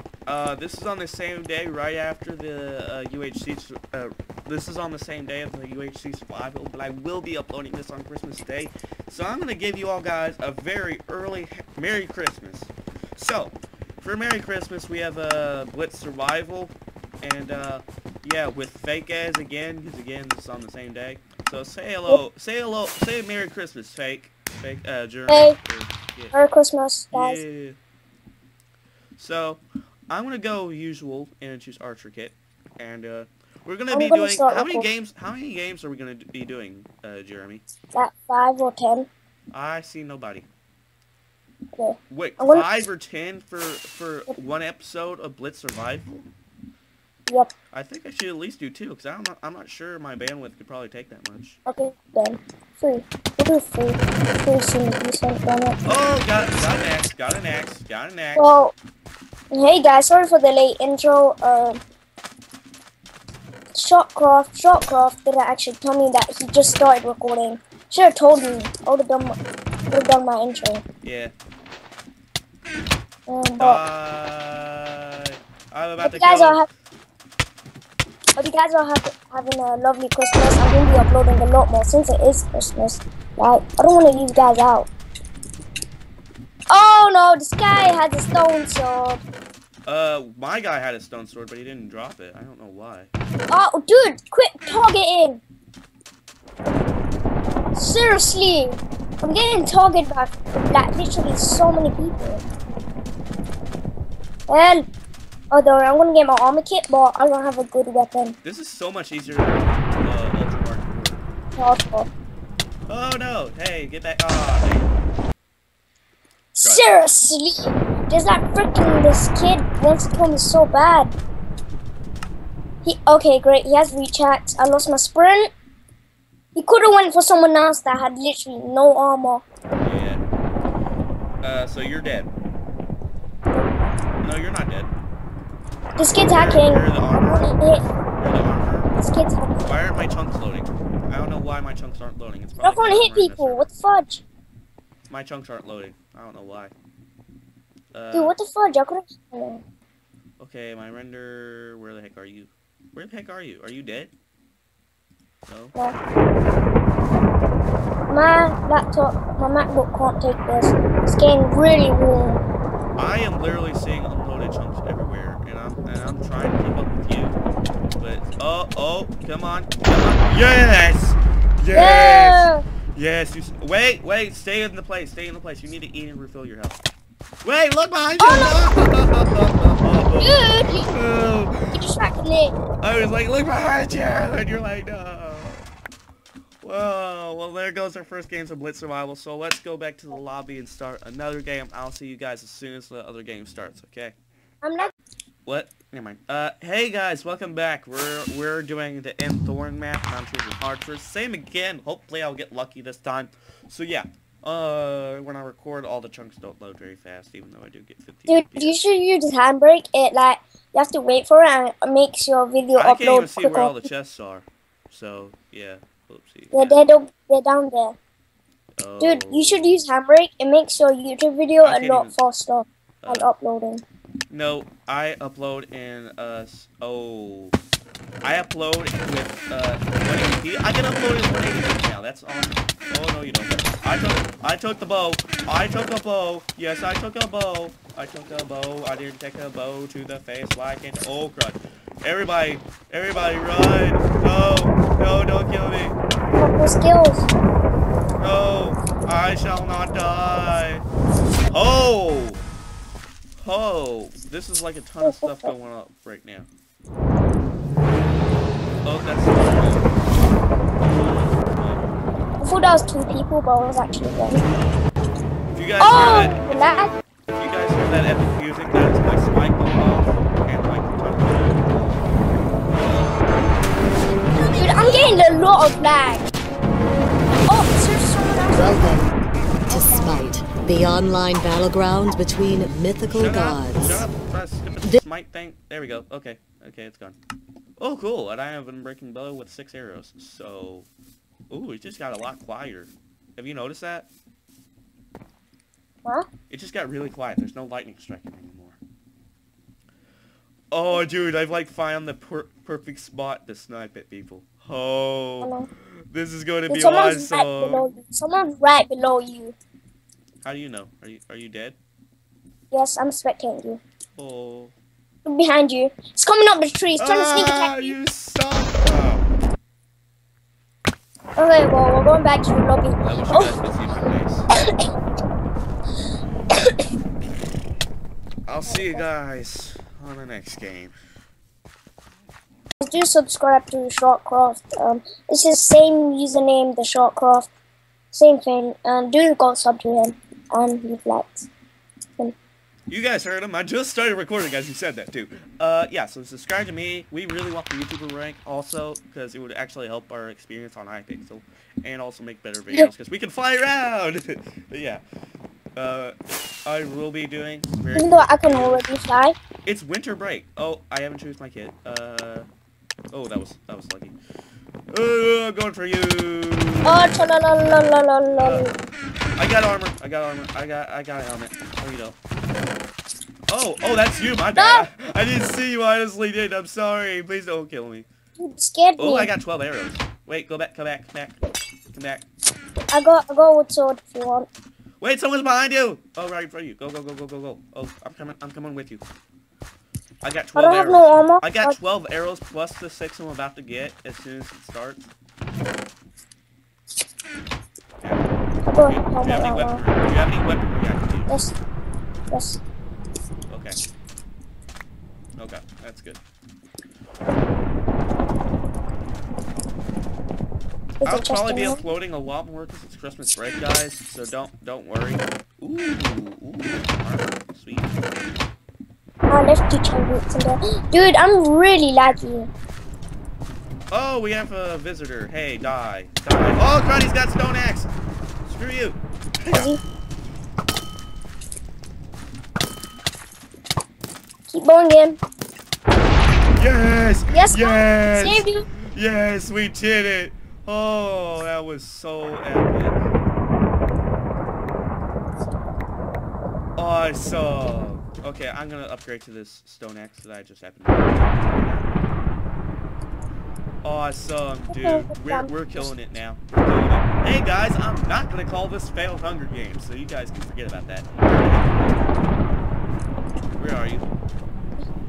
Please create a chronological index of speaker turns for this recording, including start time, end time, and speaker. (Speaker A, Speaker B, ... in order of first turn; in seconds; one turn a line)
Speaker A: 0.3-26.3
Speaker B: 25.3-25.6
Speaker B: 26.3-27.4
Speaker A: 27.1-27.8
Speaker A: 29.2-37.6
Speaker B: 33.9-34.9
Speaker B: 37.9-39.1
Speaker A: 39.5-40.5
Speaker B: 41.7-42.7
Speaker A: 42.1-46.3
Speaker A: 47.7-51.6
Speaker B: 51.6-55.8
Speaker A: 55.8-58.5
Speaker B: 58.4-58.7
Speaker B: 59.5-61.8
Speaker B: 63.7-69.4
Speaker B: 69.9-70.8
Speaker A: 71.0-71.3
Speaker B: 73.3-73.8
Speaker A: 73.6-76.6
Speaker B: 76.0-76.7
Speaker B: 78.4-84.9
Speaker B: 86.7-89.2
Speaker A: 89.9-93.1
Speaker B: 93.5-95.4
Speaker B: 97.7-102.4
Speaker B: 104.5-104.8
Speaker B: 105.5-108.4
Speaker A: 108.4-111.2
Speaker B: 111.5-112.1
Speaker A: 112.9-114.9
Speaker B: 116.5-121.1
Speaker A: 116.6-116.8
Speaker B: 122.8-125.5
Speaker B: 126.5-129.4
Speaker A: 129.8-130.2
Speaker A: 131.4-132.3
Speaker A: 134.2-134.9
Speaker B: 136.0-137.8
Speaker A: 136.3-139.0
Speaker B: 139.0-139.6
Speaker A: 139.6-143.7
Speaker B: 142.6-144.2
Speaker A: 145.1-146.7
Speaker A: 147.9-148.3
Speaker B: 148.1-149.6
Speaker A: 150.4-154.1
Speaker A: 155.5-155.8
Speaker B: 158.1-162.4
Speaker A: 163.0-167.4
Speaker A: 168.0-176.8
Speaker B: 171.7-172.6
Speaker A: 177.4-181.8
Speaker B: 178.2-178.7
Speaker B: 180.2-180.9
Speaker B: 181.7-182.6
Speaker A: 182.8-185.6
Speaker A: 186.6-194.1
Speaker B: 194.6-194.9
Speaker A: 195.4-208.8
Speaker B: 208.3-213.8
Speaker A: 212.7-216.8
Speaker B: 216.5-218.0
Speaker A: 218.8-219.8
Speaker B: 219.0-223.8
Speaker A: 221.6-222.1
Speaker A: 223.0-223.3
Speaker A: 224.3-227.6
Speaker A: 228.2-246.0
Speaker B: 246.3-247.3
Speaker A: 248.2-250.8
Speaker A: 251.5-252.4
Speaker A: 253.4-256.5
Speaker B: 255.0-255.5
Speaker A: 258.8-259.9
Speaker A: 260.8-261.9
Speaker B: 262.4-264.4
Speaker A: 265.5-266.7
Speaker B: 265.8-266.9
Speaker A: 267.3-272.0
Speaker A: 272.6-273.2
Speaker B: 274.5-276.3
Speaker B: 277.5-278.9
Speaker C: 278.5-279.1
Speaker B: 279.7-280.1
Speaker C: 279.7-284.0
Speaker A: 283.1-287.2
Speaker A: 287.8-290.9
Speaker A: 291.5-294.1
Speaker A: 296.5-298.8
Speaker A: 300.7-305.6
Speaker B: 305.4-305.7
Speaker A: 306.1-307.8
Speaker B: 306.7-309.6
Speaker A: 310.4-311.8
Speaker B: 312.7-313.8
Speaker A: 314.2-314.7
Speaker B: 315.2-317.9
Speaker A: 317.0-319.3
Speaker B: 321.4-323.5
Speaker A: 323.0-324.5
Speaker A: 328.4-330.9
Speaker B: 328.7-329.0
Speaker B: 332.8-337.5
Speaker B: 338.1-341.5
Speaker A: 342.9-355.0
Speaker A: 355.8-356.1
Speaker A: 356.6-358.9
Speaker B: 357.9-359.4
Speaker A: 359.6-362.5
Speaker A: 363.1-364.1
Speaker A: 364.9-367.0
Speaker B: 366.8-368.7
Speaker A: 368.3-368.6
Speaker A: 369.4-372.1
Speaker A: 373.5-378.1
Speaker B: 374.6-374.9
Speaker B: 378.4-379.3
Speaker A: 379.0-381.4
Speaker A: 381.9-382.2
Speaker B: 382.9-384.5
Speaker A: 385.0-389.0
Speaker A: 390.2-395.1
Speaker B: 390.6-391.7
Speaker A: 398.0-401.4
Speaker B: 398.6-399.8
Speaker B: 401.3-401.5
Speaker B: 402.3-402.6
Speaker A: 403.5-403.8
Speaker A: 405.4-406.2
Speaker B: 411.0-411.8
Speaker A: 411.0-417.9
Speaker B: 419.3-422.5
Speaker A: 423.9-427.9
Speaker A: 428.4-429.7
Speaker B: 429.5-429.8
Speaker B: 434.5-435.2
Speaker A: 436.6-443.0
Speaker B: 437.3-438.7
Speaker A: 446.8-451.9
Speaker A: 453.8-462.1
Speaker B: 454.7-455.9
Speaker A: 463.6-464.1